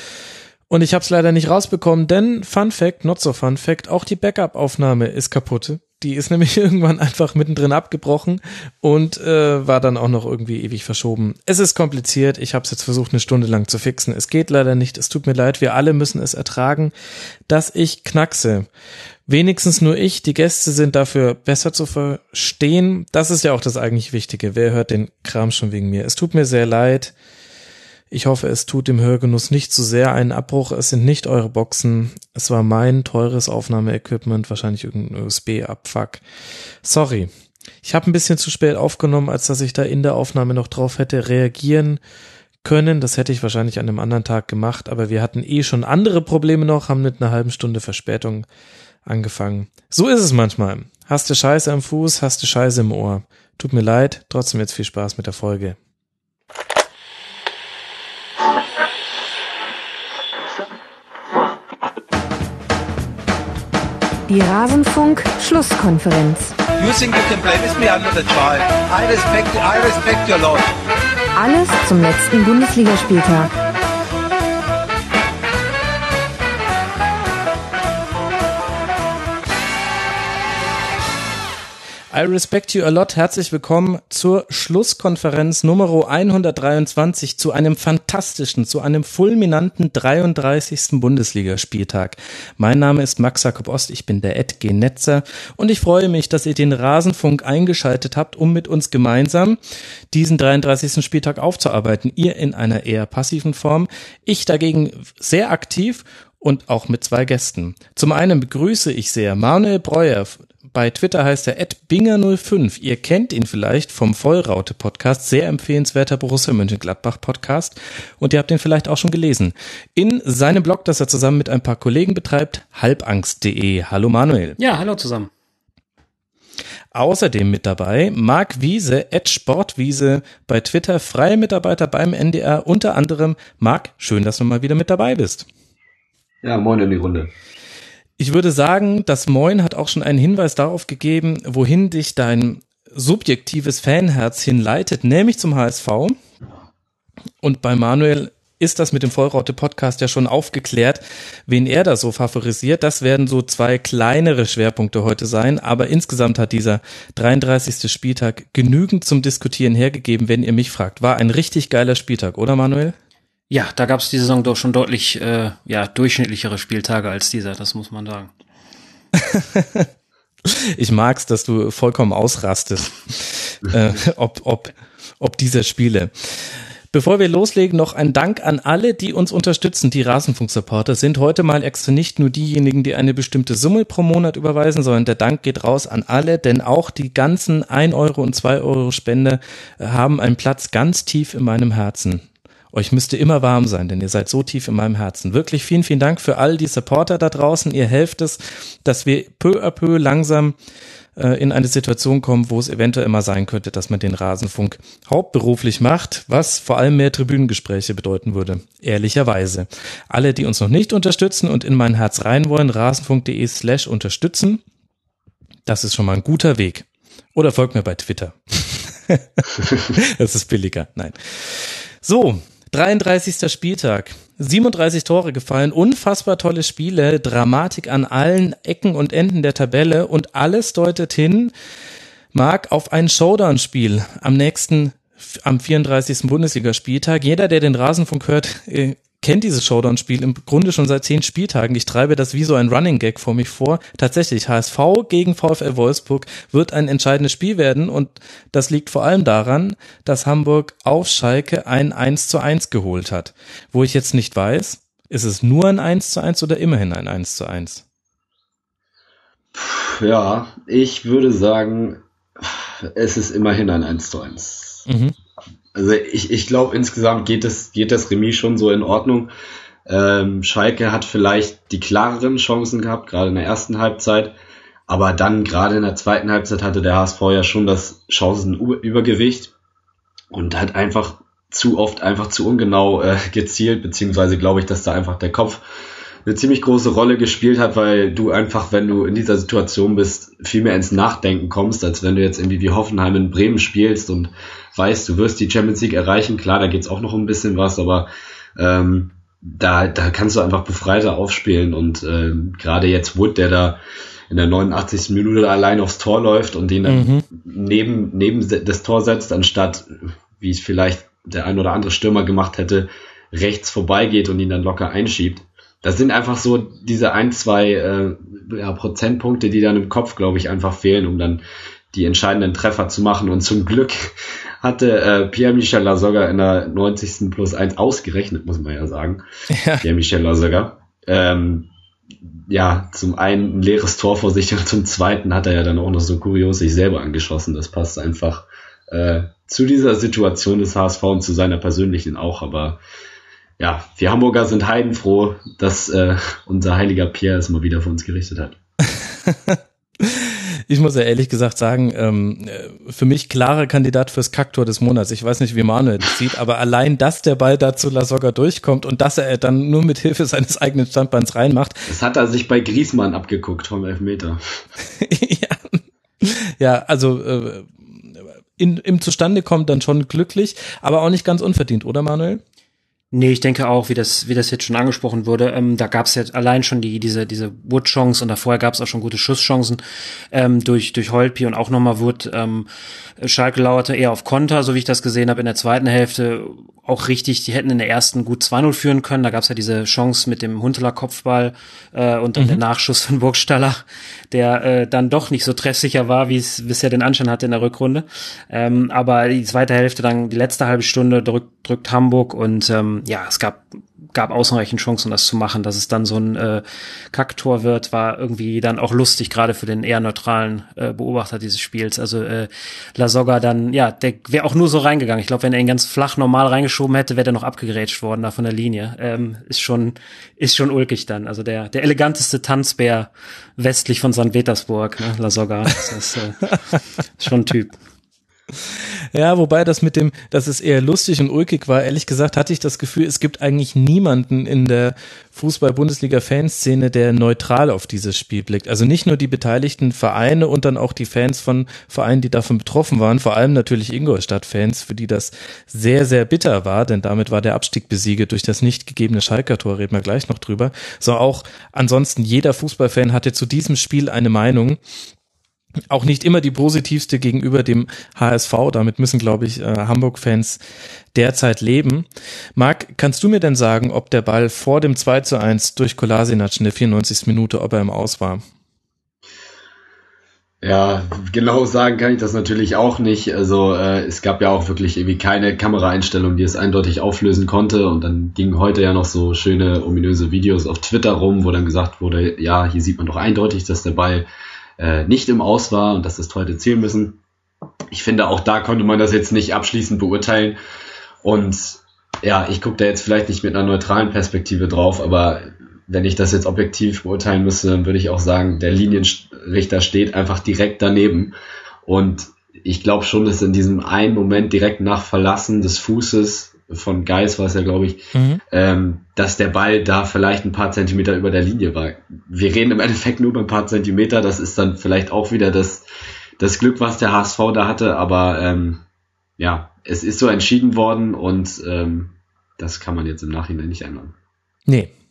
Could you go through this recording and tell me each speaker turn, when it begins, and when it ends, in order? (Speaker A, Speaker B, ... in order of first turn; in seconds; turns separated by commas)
Speaker A: 0.7-16.9, Speaker A: 17.5-18.7, Speaker A: 19.3-27.1, Speaker A: 28.1-36.2, Speaker A: 36.8-37.3, Speaker A: 37.8-42.0, Speaker A: 42.6-48.5, Speaker A: 49.0-55.8, Speaker B: 64.3-66.5, Speaker C: 66.8-70.6, Speaker B: 71.3-73.5, Speaker A: 82.1-99.6, Speaker A: 100.1-124.6, Speaker D: 124.6-125.3, Speaker A: 126.9-135.5, Speaker E: 136.4-137.3, Speaker A: 138.2-146.2, Speaker A: 147.4-162.9, Speaker D: 163.5-168.3, Speaker A: 169.2-169.9, Speaker A: 170.5-200.5, Speaker A: 201.2-214.6, Speaker A: 215.7-231.5, Speaker A: 232.3-257.8, Speaker E: 259.5-264.9, Speaker A: 264.9-265.1, Speaker E: 265.7-269.3, Speaker E: 269.9-274.3, Speaker E: 274.9-279.5, Speaker E: 280.3-285.6, Speaker E: 286.2-329.2, Speaker A: 306.9-307.2, Speaker A: 329.5-329.8, Speaker E: 329.8-331.7, Speaker E: 332.5-342.8, Speaker E: 343.6-348.6, Speaker A: 349.1-361.9, Speaker E: 361.9-364.6, Speaker A: 365.0-372.4, Speaker D: 373.1-379.8, Speaker D: 380.3-382.7, Speaker D: 383.2-426.6, Speaker D: 427.2-427.7, Speaker A: 428.7-454.8, Speaker A: 455.9-460.6, Speaker A: 461.1-468.4, Speaker E: 470.6-484.2, Speaker E: 484.8-487.2, Speaker E: 487.9-490.6, Speaker E: 491.2-501.3, Speaker E: 501.9-515.8, Speaker A: 508.1-508.4, Speaker E: 516.4-518.8, Speaker E: 519.4-524.1